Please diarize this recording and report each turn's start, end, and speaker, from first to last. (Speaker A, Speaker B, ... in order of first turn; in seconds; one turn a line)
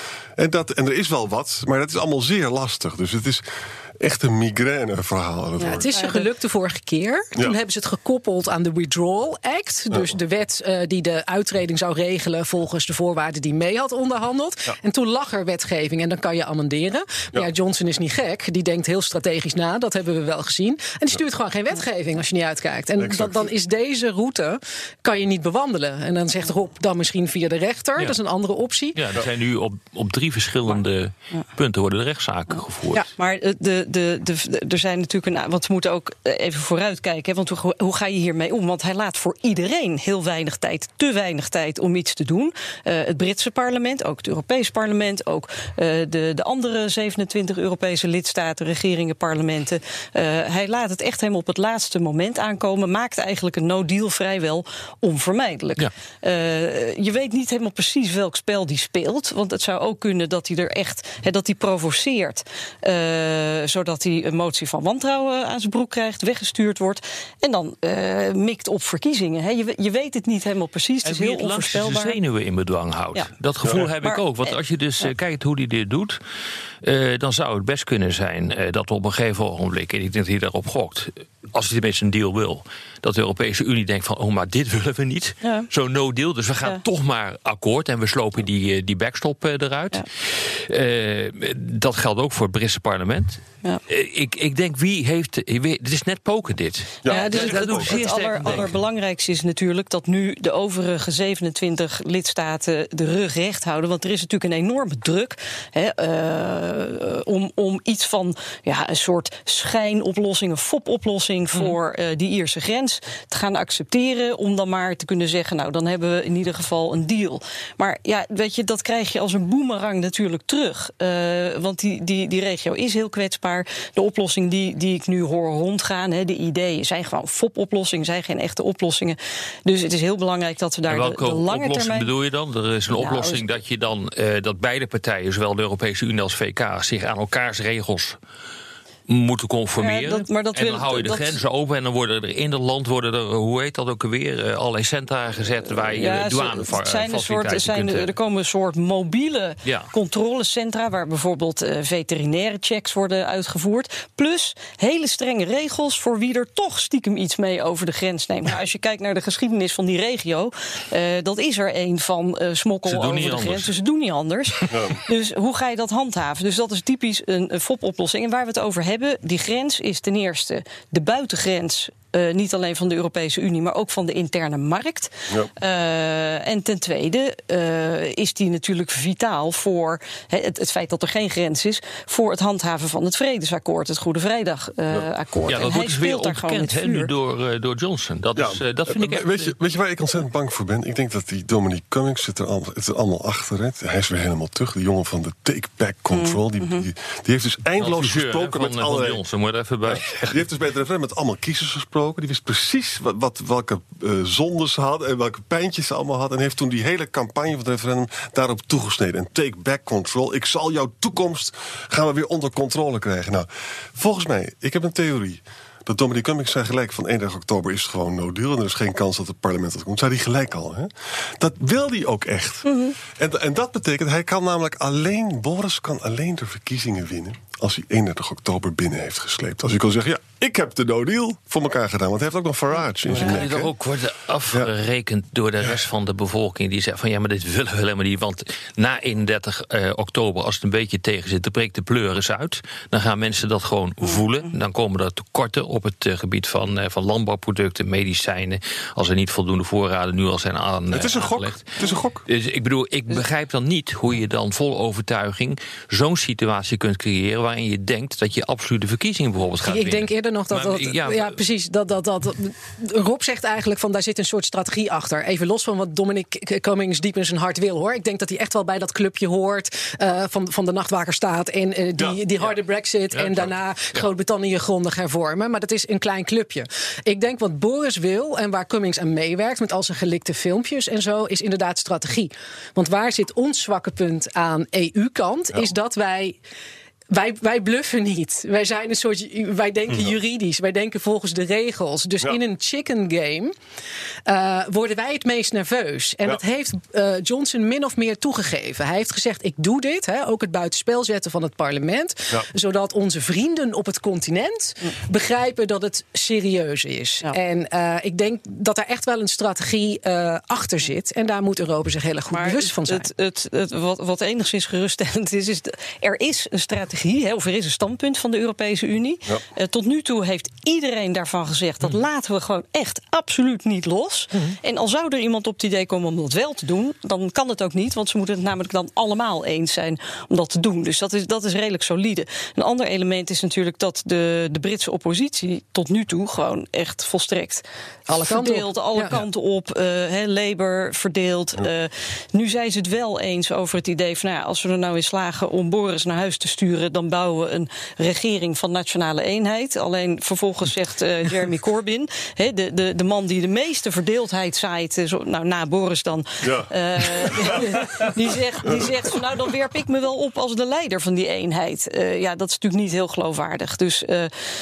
Speaker A: 0.4-3.4
Speaker A: 4.0-5.9
Speaker B: 5.6-29.0
Speaker C: 5.7-6.3
Speaker A: 23.0-23.5
Speaker D: 28.9-33.1
Speaker C: 33.1-72.2
Speaker D: 71.0-76.2
Speaker A: 73.6-73.9
Speaker C: 74.0-75.1
Speaker D: 76.8-98.8
Speaker C: 85.4-85.7
Speaker A: 97.0-98.7
Speaker C: 97.1-132.1
Speaker D: 130.9-138.2
Speaker C: 132.9-133.6
Speaker D: 139.1-148.1
Speaker C: 139.8-141.4
Speaker C: 145.7-187.1
Speaker D: 149.7-149.9
Speaker D: 162.9-163.7
Speaker A: 164.7-165.0
Speaker A: 184.9-185.6
Speaker D: 185.5-189.5
Speaker A: 188.4-199.2
Speaker C: 196.1-196.8
Speaker D: 197.8-200.4
Speaker A: 199.9-233.7
Speaker C: 222.7-223.0
Speaker D: 233.1-261.4
Speaker A: 250.9-252.2
Speaker B: 259.6-286.4
Speaker D: 273.1-274.1
Speaker B: 287.1-293.5
Speaker B: 294.3-313.1
Speaker C: 312.3-337.6
Speaker B: 338.1-339.1
Speaker C: 338.2-364.3
Speaker A: 356.4-358.1
Speaker A: 358.6-359.0